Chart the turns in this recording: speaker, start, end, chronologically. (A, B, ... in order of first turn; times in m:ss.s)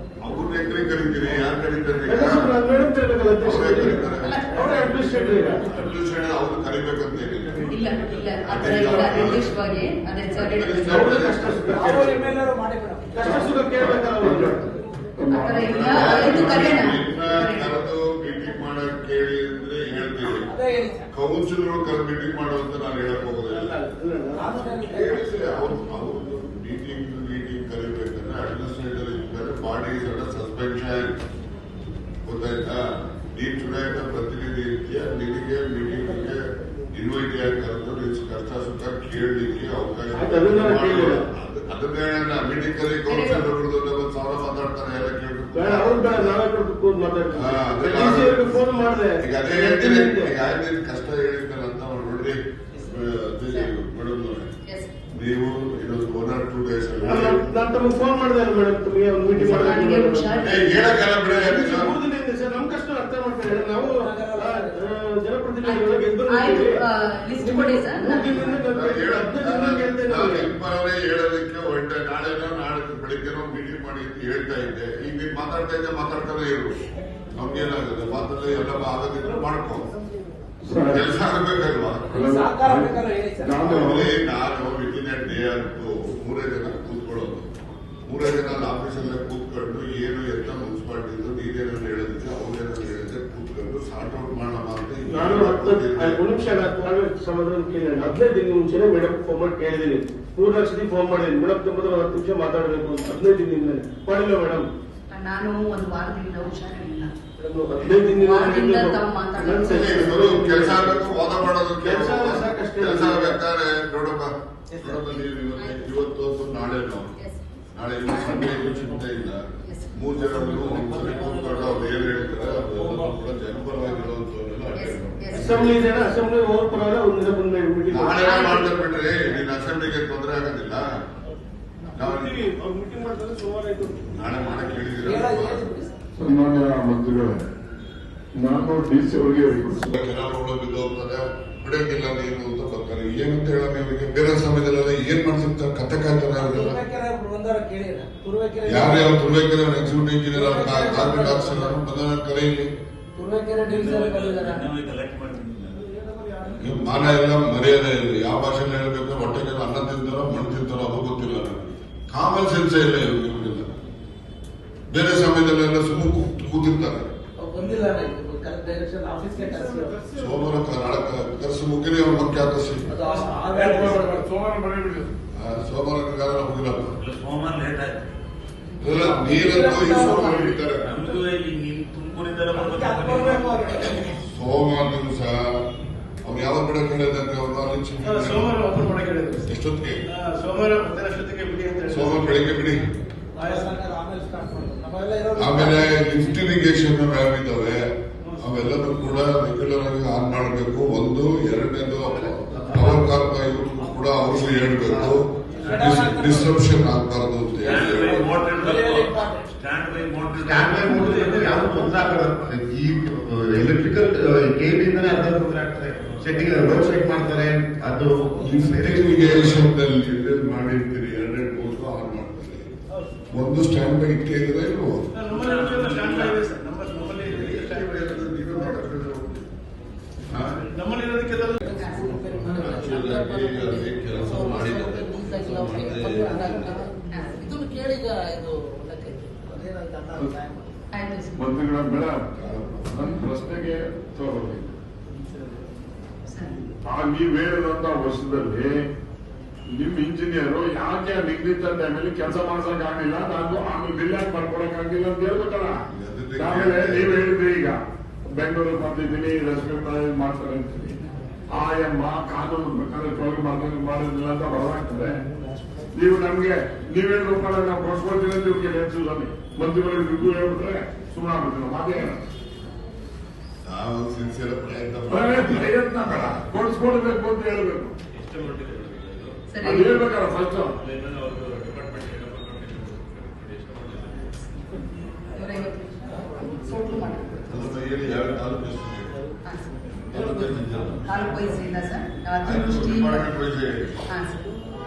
0:00.2-0:02.5 A
0:02.1-0:05.6 B
0:03.4-0:04.5 A
0:05.6-0:07.8 A
0:07.7-0:11.2 C
0:08.4-0:09.5 A
0:10.4-0:11.7 A
0:10.8-0:12.2 B
0:11.7-0:13.4 D
0:13.1-0:14.6 B
0:13.2-0:14.6 E
0:15.2-0:16.8 E
0:15.3-0:17.7 C
0:15.6-0:20.4 A
0:20.3-0:21.1 D
0:21.1-0:23.7 A
0:23.5-0:24.6 B
0:24.4-0:25.2 D
0:24.8-0:31.1 A
0:32.2-0:36.4 A
0:36.9-0:46.4 A
0:40.1-0:41.2 B
0:43.1-0:43.4 C
0:45.5-0:50.3 B
0:47.3-0:48.6 A
0:49.2-0:54.5 A
0:54.6-0:54.9 C
0:55.2-0:57.5 A
0:57.0-1:00.6 B
0:59.4-1:00.6 C
1:00.4-1:01.9 A
1:01.3-1:06.7 B
1:03.8-1:04.8 D
1:05.6-1:08.6 C
1:07.4-1:10.5 B
1:08.7-1:16.8 A
1:17.3-1:19.9 A
1:20.6-1:21.0 E
1:20.9-1:22.0 A
1:22.1-1:23.7 D
1:22.1-1:24.1 E
1:23.6-1:27.5 A
1:28.0-1:36.2 A
1:35.1-1:44.7 B
1:45.1-1:47.1 C
1:47.4-1:51.1 B
1:48.1-1:50.1 C
1:49.6-1:57.1 A
1:51.8-1:53.4 B
1:55.6-1:55.9 C
1:57.2-1:57.5 C
1:57.7-1:59.4 A
1:58.1-1:58.7 C
1:59.6-2:00.0 C
1:59.9-2:05.8 A
2:00.4-2:02.0 F
2:02.6-2:03.1 F
2:04.7-2:05.6 C
2:05.3-2:08.6 B
2:07.9-2:10.8 A
2:08.2-2:08.7 C
2:12.0-2:12.4 A
2:12.0-2:14.0 B
2:14.1-2:15.7 A
2:15.0-2:15.9 D
2:16.2-2:17.4 E
2:18.4-2:19.9 E
2:19.9-2:26.8 A
2:26.3-2:29.2 D
2:28.6-2:32.7 A
2:30.3-2:31.8 D
2:33.2-2:34.7 D
2:33.7-2:36.0 F
2:36.1-2:36.6 D
2:36.6-2:43.7 A
2:44.9-2:47.1 A
2:47.4-2:50.0 D
2:50.1-2:52.9 A
2:52.9-2:54.2 D
2:53.5-2:55.1 E
2:55.3-2:56.9 A
2:56.9-2:58.1 F
2:58.8-3:00.8 A
2:59.2-3:00.5 D
2:59.6-3:00.6 E
3:00.8-3:03.9 F
3:02.5-3:04.1 D
3:04.2-3:05.6 A
3:06.2-3:08.6 A
3:08.0-3:09.4 B
3:09.4-3:10.0 A
3:10.1-3:12.4 B
3:11.9-3:12.8 A
3:13.4-3:16.2 D
3:15.3-3:17.8 A
3:18.4-3:28.3 A
3:22.3-3:25.2 G
3:25.6-3:26.5 D
3:27.6-3:31.0 F
3:27.7-3:29.4 D
3:30.3-3:39.7 G
3:30.9-3:31.8 D
3:38.4-3:42.7 A
3:43.3-3:45.0 A
3:45.1-3:48.0 B
3:45.3-3:46.5 F
3:47.2-3:49.4 A
3:50.3-3:50.6 A
3:50.7-3:51.6 B
3:51.6-4:00.7 D
3:51.8-3:52.2 C
3:52.4-3:56.7 A
3:57.1-3:57.4 C
4:00.9-4:01.5 C
4:01.4-4:02.3 E
4:02.3-4:03.0 A
4:02.9-4:04.7 E
4:06.3-4:06.6 C
4:06.8-4:08.7 E
4:09.7-4:15.7 E
4:15.9-4:17.2 A
4:16.4-4:17.8 E
4:18.4-4:21.0 E
4:21.6-4:25.2 E
4:26.0-4:32.2 E
4:33.6-4:36.4 A
4:35.1-4:37.9 E
4:38.2-4:39.3 F
4:39.5-4:40.0 C
4:39.6-4:40.8 E
4:40.8-4:44.3 F
4:45.3-4:47.6 C
4:47.5-4:49.1 A
4:49.4-4:49.7 C
4:50.1-4:51.1 A
4:51.1-4:53.3 C
4:52.4-4:53.9 A
4:54.1-4:54.4 C